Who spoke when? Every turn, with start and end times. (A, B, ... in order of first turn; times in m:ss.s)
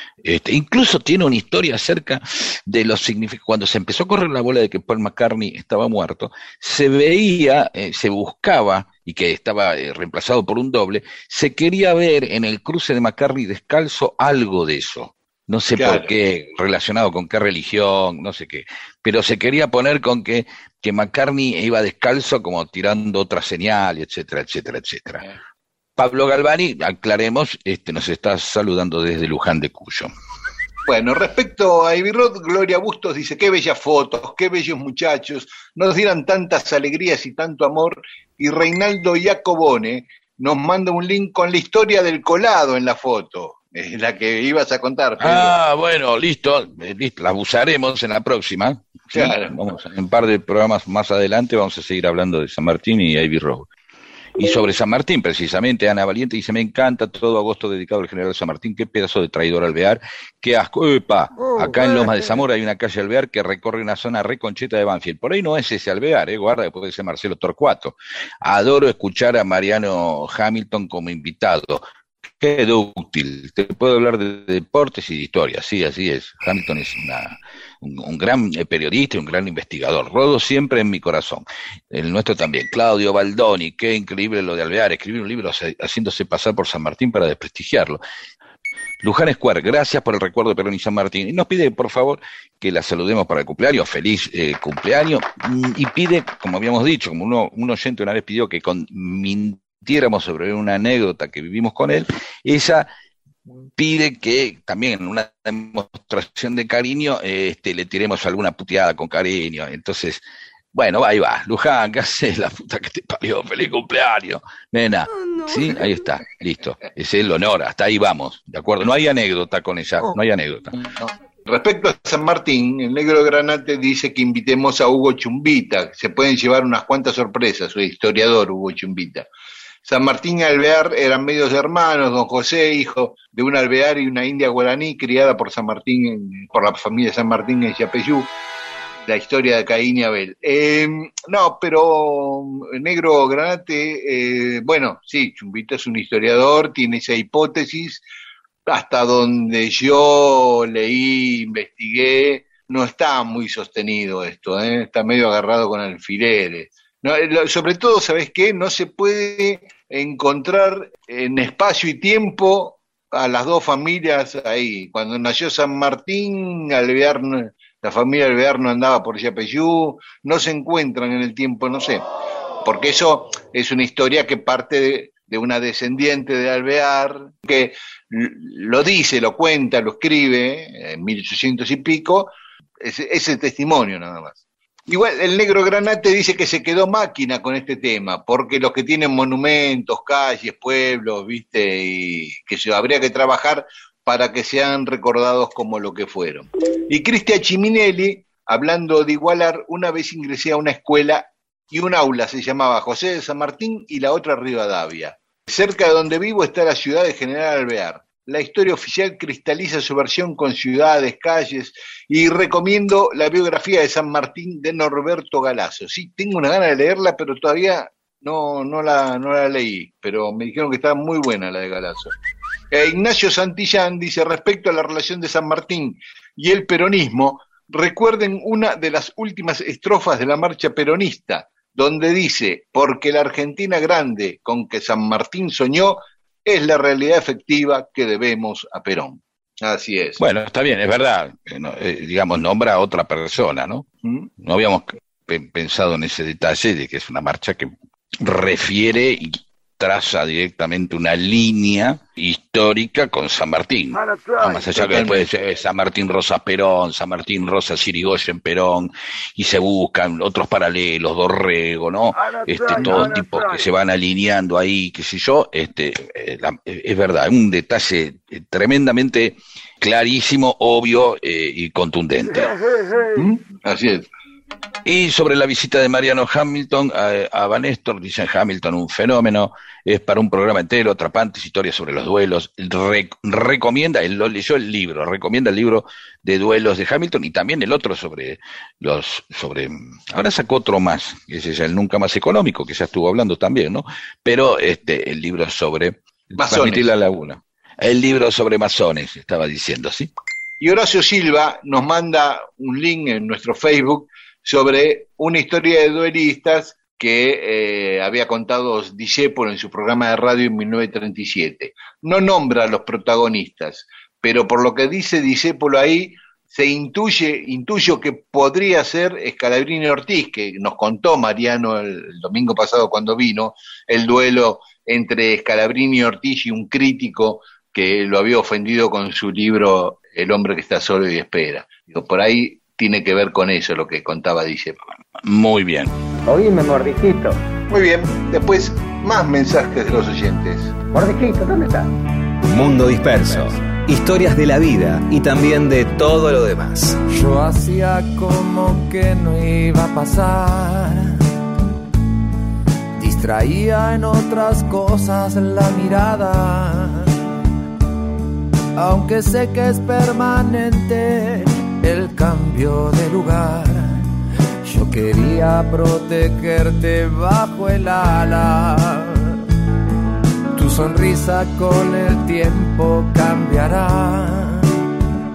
0:00.2-0:25.2 A
0:15.8-0:16.1 B
0:26.0-0:30.1 A
0:30.9-0:45.5 B
0:45.2-0:53.7 A
0:49.1-0:49.5 B
0:54.4-1:11.8 A
1:12.4-1:28.0 A
1:29.0-1:42.9 A
1:43.8-1:50.2 A
1:50.7-2:00.7 A
2:00.8-2:09.3 B
2:09.8-2:18.3 B
2:19.0-2:28.0 B
2:28.7-2:52.0 B
2:52.6-3:42.2 B
3:42.7-4:00.2 B
4:00.2-4:03.9 A
4:04.0-4:04.3 B
4:04.4-4:32.6 A
4:14.8-4:15.2 B
4:33.1-4:34.1 B
4:34.9-5:00.1 A
4:56.4-4:56.8 B
5:00.6-5:34.8 B
5:35.2-5:35.9 A
5:36.3-5:37.4 C
5:37.7-5:40.7 B
5:40.9-5:41.9 C
5:42.4-5:47.0 D
5:47.1-5:51.2 E
5:53.0-5:57.2 E
5:58.8-6:04.1 E
6:04.6-6:09.4 E
6:10.5-6:14.8 E